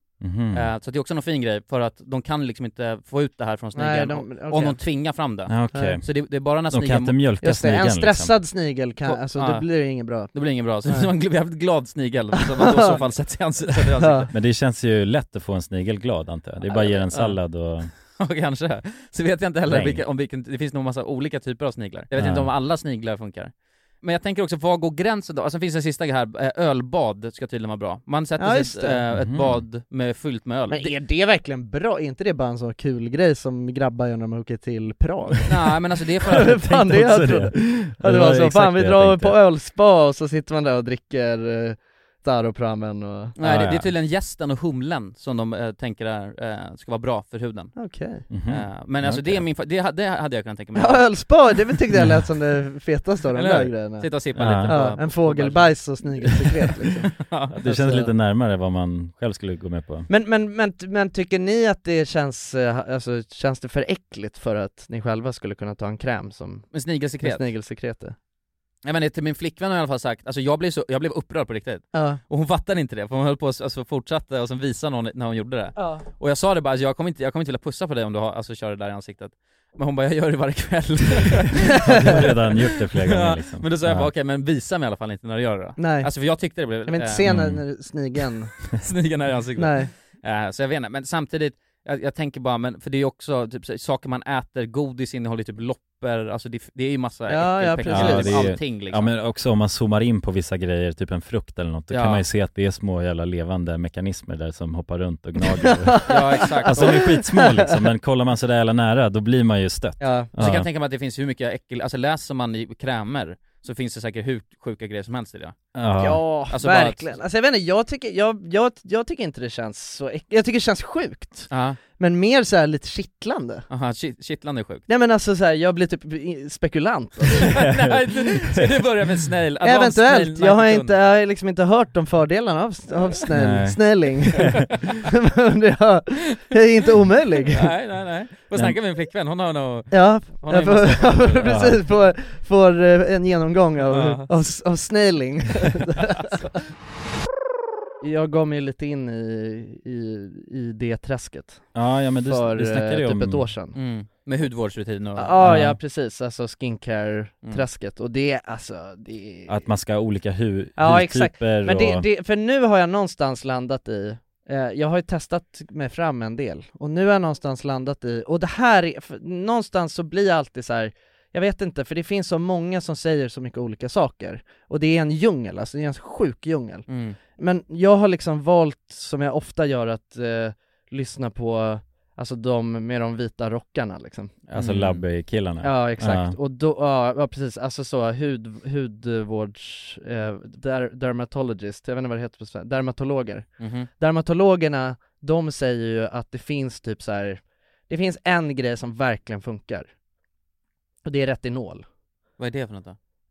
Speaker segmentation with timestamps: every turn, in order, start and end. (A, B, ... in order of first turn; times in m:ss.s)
0:00.2-0:00.7 A
0:00.5-0:07.2 B
0:03.7-0:04.8 C
0:05.5-0:06.0 A
0:05.7-0:06.0 C
0:06.7-0:08.3 A
0:07.4-0:10.3 C
0:09.0-0:14.3 B
0:12.4-0:13.0 C
0:13.8-0:14.3 C
0:14.3-0:17.9 A
0:16.7-0:17.4 C
0:18.2-0:30.9 B
0:19.7-0:20.0 A
0:22.2-0:22.5 A
0:28.4-0:29.0 C
0:29.1-0:29.6 A
0:30.7-0:35.7 C
0:35.5-0:36.6 B
0:36.2-0:43.3 C
0:36.4-0:39.4 A
0:43.4-0:47.8 B
0:43.4-0:43.9 A
0:47.8-0:48.3 C
0:48.3-0:49.4 A
0:48.5-0:51.2 B
0:50.7-0:58.1 C
0:53.3-0:56.0 B
0:54.4-0:54.8 A
0:57.2-0:57.6 B
0:57.5-1:00.1 A
1:00.1-1:08.1 C
1:06.7-1:07.4 B
1:08.8-1:27.2 B
1:11.9-1:12.2 C
1:15.8-1:16.0 C
1:21.8-1:24.1 A
1:25.8-1:26.1 C
1:26.8-1:28.6 C
1:27.2-1:27.6 A
1:28.7-1:39.1 B
1:29.6-1:29.9 C
1:37.3-1:38.5 C
1:37.9-1:46.1 A
1:41.9-1:42.2 B
1:45.4-1:47.8 C
1:46.0-1:47.1 B
1:46.7-1:50.7 A
1:50.0-1:50.3 C
1:50.4-1:55.6 B
1:55.8-1:56.2 A
1:56.0-2:03.6 C
1:56.5-1:57.2 B
2:01.5-2:01.8 B
2:03.7-2:04.8 B
2:04.9-2:07.6 C
2:07.5-2:11.0 B
2:09.6-2:17.7 C
2:13.4-2:13.8 A
2:17.5-2:21.5 B
2:19.9-2:26.4 C
2:21.5-2:21.7 A
2:23.9-2:24.3 B
2:28.0-2:33.7 C
2:31.7-2:33.4 A
2:33.7-2:35.4 B
2:35.2-2:39.6 C
2:35.4-2:35.8 A
2:39.5-2:42.0 A
2:40.8-3:04.3 C
2:56.9-2:57.2 B
3:04.5-3:05.0 B
3:04.5-3:06.3 A
3:05.6-3:19.9 C
3:13.6-3:13.9 B
3:21.0-3:21.8 C
3:22.4-3:23.0 B